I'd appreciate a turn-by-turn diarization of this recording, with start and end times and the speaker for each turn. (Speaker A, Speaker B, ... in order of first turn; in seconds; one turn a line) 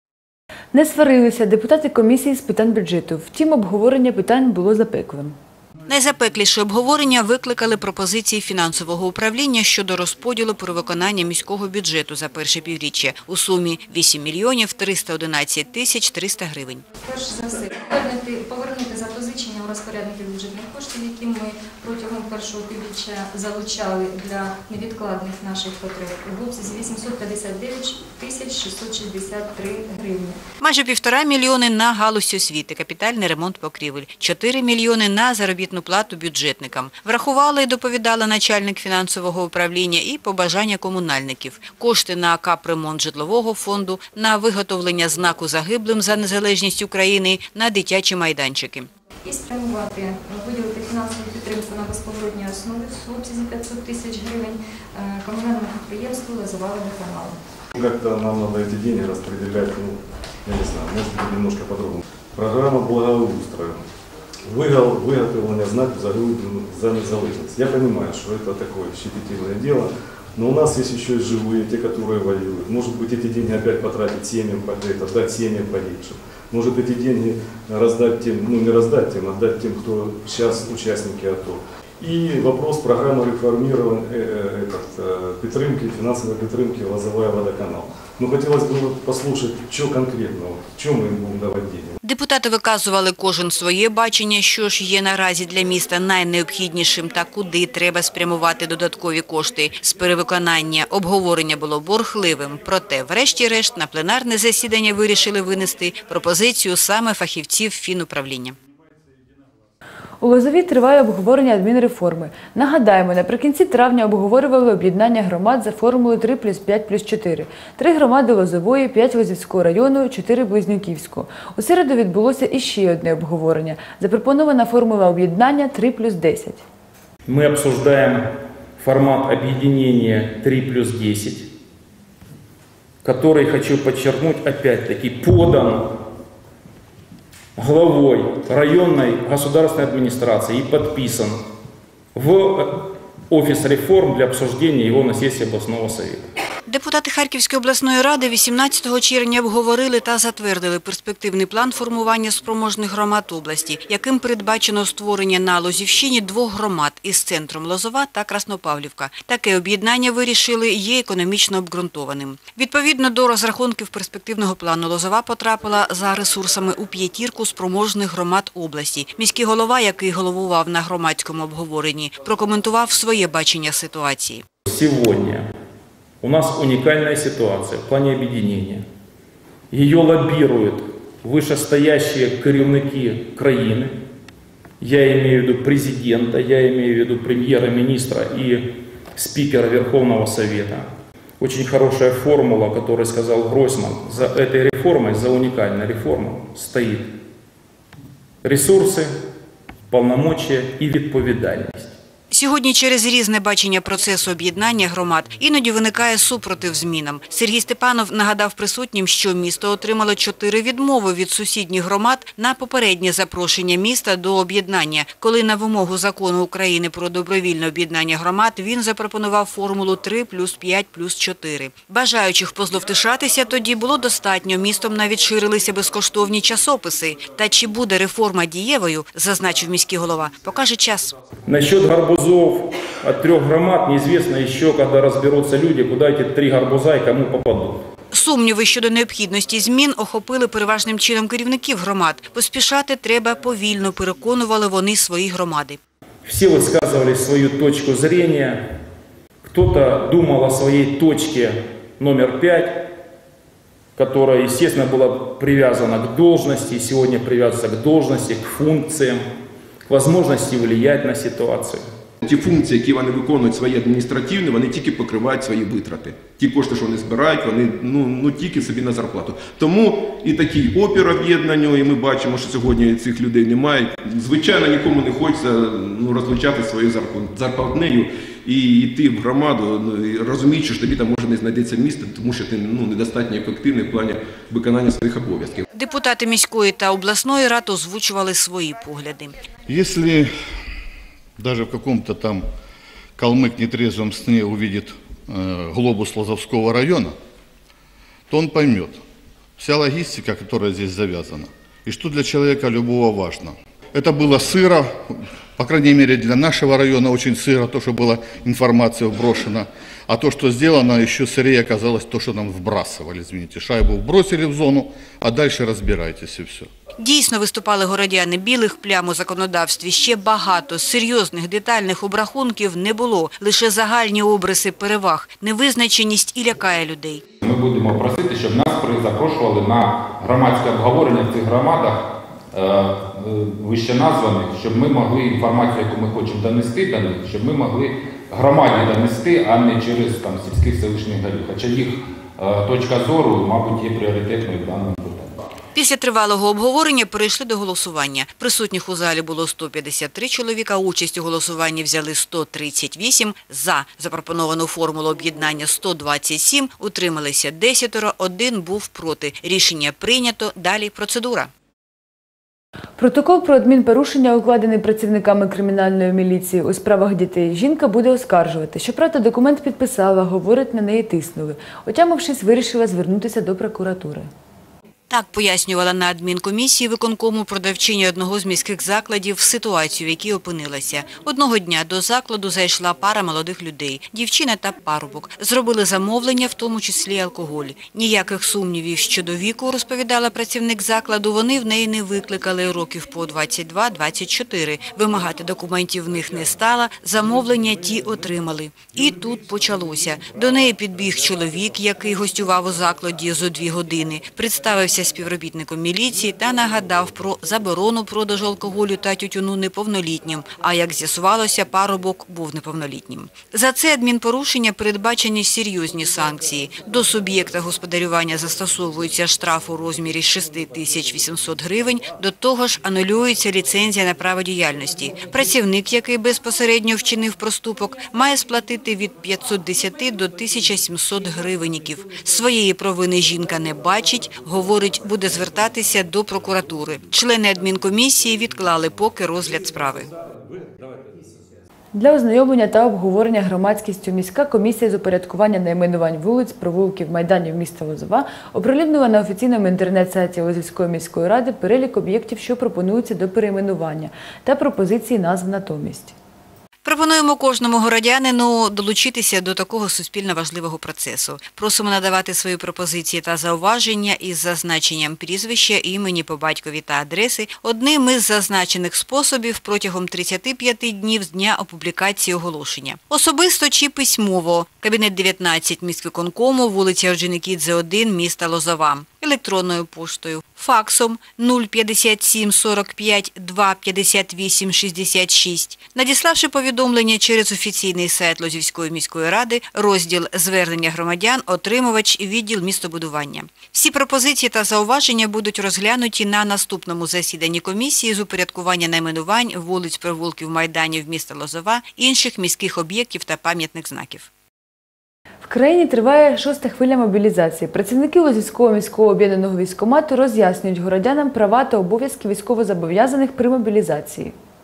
Speaker A: 0.7-5.3
Speaker B: 5.9-16.8
Speaker C: 17.0-30.4
Speaker B: 30.6-48.9
Speaker C: 49.2-57.4
Speaker D: 57.7-63.8
Speaker D: 64.5-92.0
Speaker B: 92.0-108.5
Speaker A: 110.2-126.6
Speaker E: 127.2-131.5
Speaker E: 133.0-136.0
Speaker E: 137.6-141.4
Speaker E: 142.1-146.3
Speaker B: 146.7-174.4
Speaker E: 174.7-175.5
Speaker E: 176.2-178.8
Speaker E: 179.7-183.9
Speaker E: 184.8-197.1
Speaker E: 198.4-199.2
Speaker E: 199.9-201.9
Speaker B: 202.3-231.1
Speaker E: 231.4-237.8
Speaker B: 238.1-245.8
Speaker E: 246.2-248.6
Speaker E: 249.4-252.9
Speaker E: 253.9-259.2
Speaker E: 259.9-261.8
Speaker F: 262.2-285.6
Speaker B: 285.7-289.3
Speaker G: 289.7-290.3
Speaker G: 291.4-292.5
Speaker G: 293.1-297.1
Speaker G: 298.3-299.0
Speaker G: 299.6-316.7
Speaker B: 317.0-327.2
Speaker H: 327.4-345.5
Speaker B: 345.7-361.5
Speaker A: 363.0-374.3
Speaker B: 375.1-440.1
Speaker A: 441.9-456.1
Speaker B: 456.8-504.3
Speaker A: 505.4-514.3